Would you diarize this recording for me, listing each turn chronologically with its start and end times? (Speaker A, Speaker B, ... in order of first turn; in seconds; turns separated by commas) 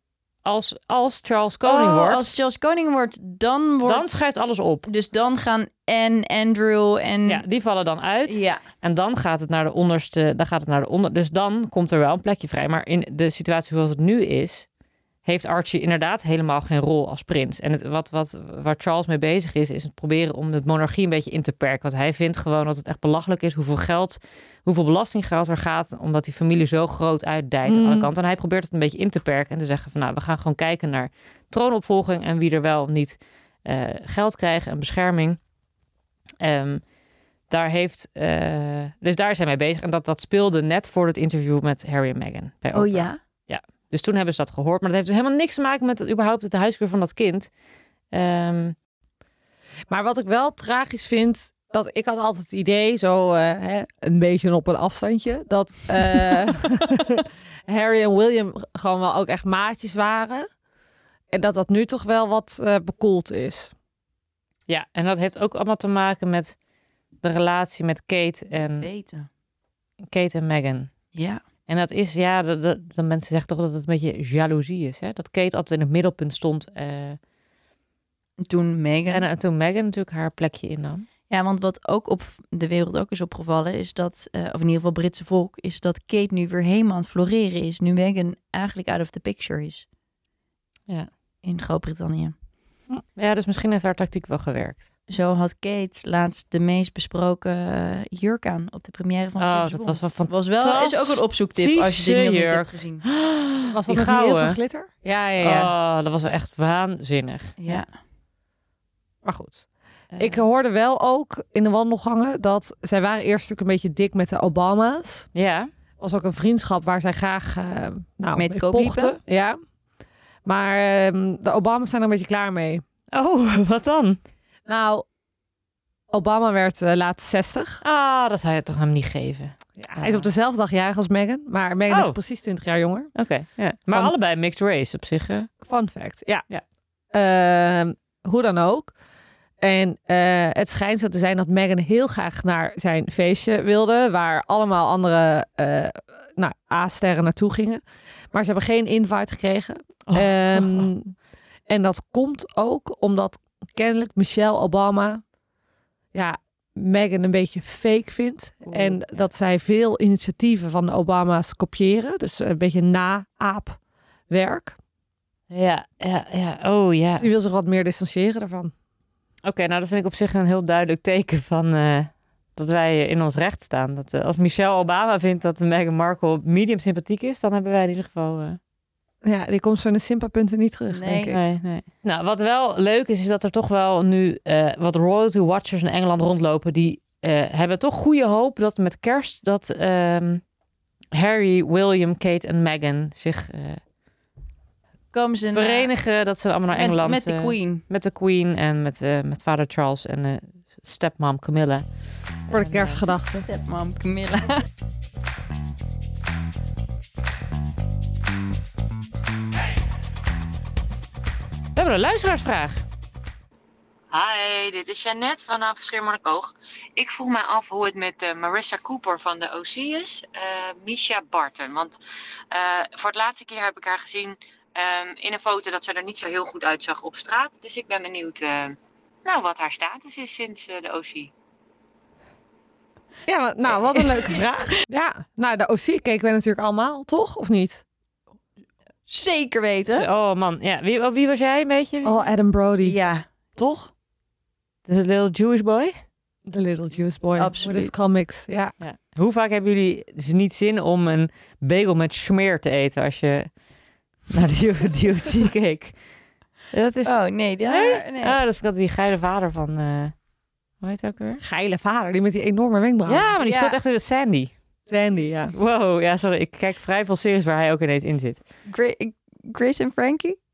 Speaker A: 0.4-2.3, Speaker B: 1.6-4.0, Speaker A: 3.8-4.9, Speaker B: 4.9-7.4, Speaker A: 7.2-14.7, Speaker B: 8.3-8.6, Speaker A: 15.2-35.4, Speaker C: 27.6-28.1, Speaker A: 36.4-36.8, Speaker A: 37.5-47.5, Speaker B: 42.7-43.2, Speaker A: 48.1-48.8, Speaker C: 49.9-60.5, Speaker C: 61.3-63.7, Speaker A: 64.7-66.5, Speaker A: 67.2-68.9, Speaker B: 68.5-69.3, Speaker A: 70.1-70.9, Speaker B: 71.1-71.4, Speaker A: 71.7-77.2, Speaker B: 78.4-79.2, Speaker A: 79.1-81.1, Speaker B: 81.3-89.8, Speaker B: 91.4-92.3, Speaker A: 93.2-94.9, Speaker B: 95.1-103.0, Speaker A: 99.4-104.6, Speaker C: 103.7-105.7, Speaker A: 105.4-107.8, Speaker B: 107.6-107.9, Speaker C: 109.2-109.6, Speaker A: 110.1-110.4, Speaker C: 110.2-115.3, Speaker A: 115.3-115.7, Speaker C: 116.0-119.6, Speaker B: 118.3-119.2, Speaker C: 120.4-122.8, Speaker A: 123.1-124.2, Speaker C: 124.7-125.0, Speaker C: 126.1-127.8, Speaker A: 127.8-130.3, Speaker C: 129.8-133.1, Speaker A: 131.9-132.2, Speaker A: 133.1-135.5, Speaker C: 135.6-136.4, Speaker C: 137.1-138.9, Speaker C: 139.6-147.8, Speaker C: 148.3-151.1, Speaker A: 150.1-150.9, Speaker C: 151.7-155.2, Speaker C: 156.1-163.8, Speaker A: 158.7-159.2, Speaker C: 164.3-164.8, Speaker A: 165.5-167.3, Speaker C: 167.1-168.7, Speaker A: 169.4-178.6, Speaker C: 179.2-181.4, Speaker B: 180.9-181.3, Speaker A: 181.3-190.4, Speaker A: 191.1-193.8, Speaker B: 195.1-195.9, Speaker A: 195.5-201.9, Speaker B: 196.7-197.8, Speaker A: 202.5-203.0, Speaker C: 202.5-203.4, Speaker B: 203.1-204.6, Speaker A: 211.7-212.8, Speaker D: 214.1-221.9, Speaker D: 222.5-231.3, Speaker C: 233.2-237.8, Speaker B: 234.0-234.4, Speaker B: 239.1-240.1, Speaker A: 239.9-242.2, Speaker C: 242.0-243.0, Speaker B: 242.8-243.2, Speaker C: 243.6-243.9, Speaker A: 244.8-245.9, Speaker C: 246.4-248.7, Speaker B: 247.4-247.9, Speaker A: 248.8-253.5, Speaker A: 254.3-255.9, Speaker A: 256.7-257.1, Speaker B: 257.0-258.4, Speaker A: 257.7-260.1, Speaker A: 260.8-261.4, Speaker C: 261.4-263.3, Speaker A: 263.1-264.5, Speaker B: 263.4-263.7, Speaker C: 264.9-265.5, Speaker A: 265.5-268.4, Speaker B: 268.7-270.4